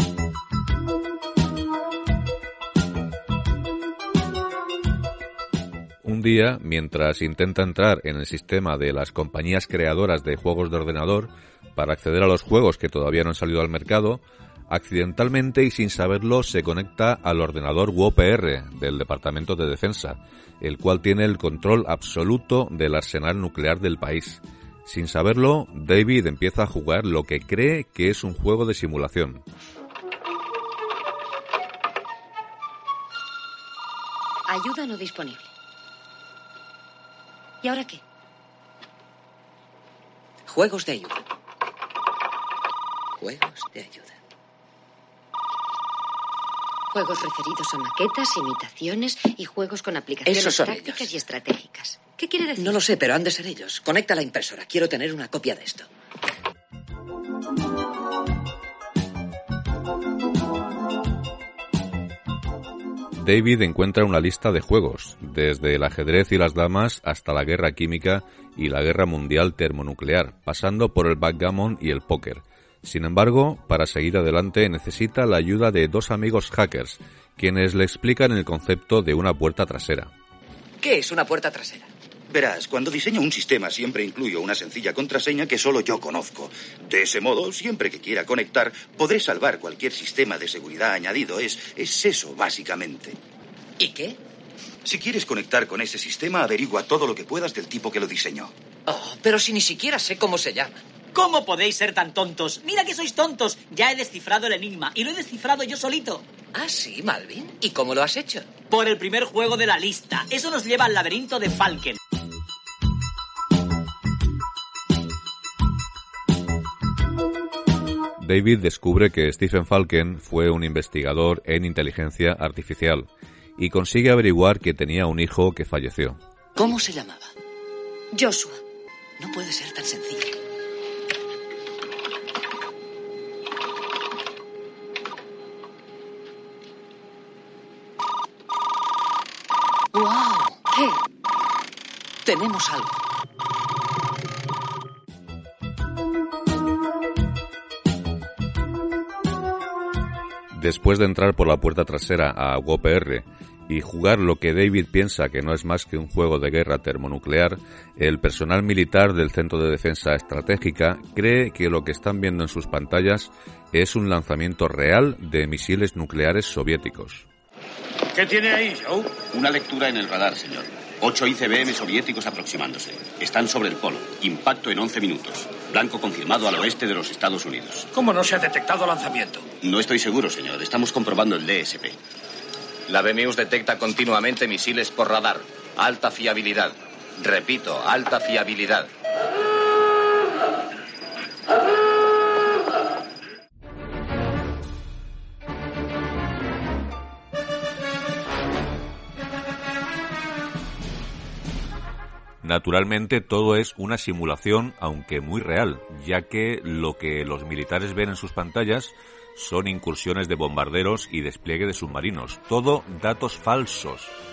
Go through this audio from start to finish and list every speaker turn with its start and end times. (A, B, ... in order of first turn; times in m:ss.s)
0:06.0-0:29.4 A
0:34.5-0:35.5 B
0:37.6-0:38.0 B
0:40.5-0:41.2 C
0:43.2-0:44.2 C
0:46.9-0:52.8 B
0:50.3-0:51.2 C
0:52.6-0:55.9 C
1:03.2-1:20.1 A
1:20.8-1:21.9 C
1:22.3-1:33.2 D
1:33.8-1:34.2 C
1:34.8-1:38.5 D
1:38.9-1:40.8 C
1:41.2-1:46.2 E
1:46.5-1:48.6 C
1:48.7-1:52.0 E
1:58.2-2:06.2 A
2:06.6-2:07.3 C
2:08.1-2:08.6 B
2:09.2-2:10.4 C
2:19.9-2:20.6 C
2:20.7-2:21.0 B
2:22.2-2:23.0 C
2:30.5-2:47.3 A
2:48.2-2:49.1 F
2:49.3-2:57.9 G
2:58.0-2:59.4 F
2:59.6-3:02.0 G
3:02.9-3:08.9 H
3:22.4-3:34.1 A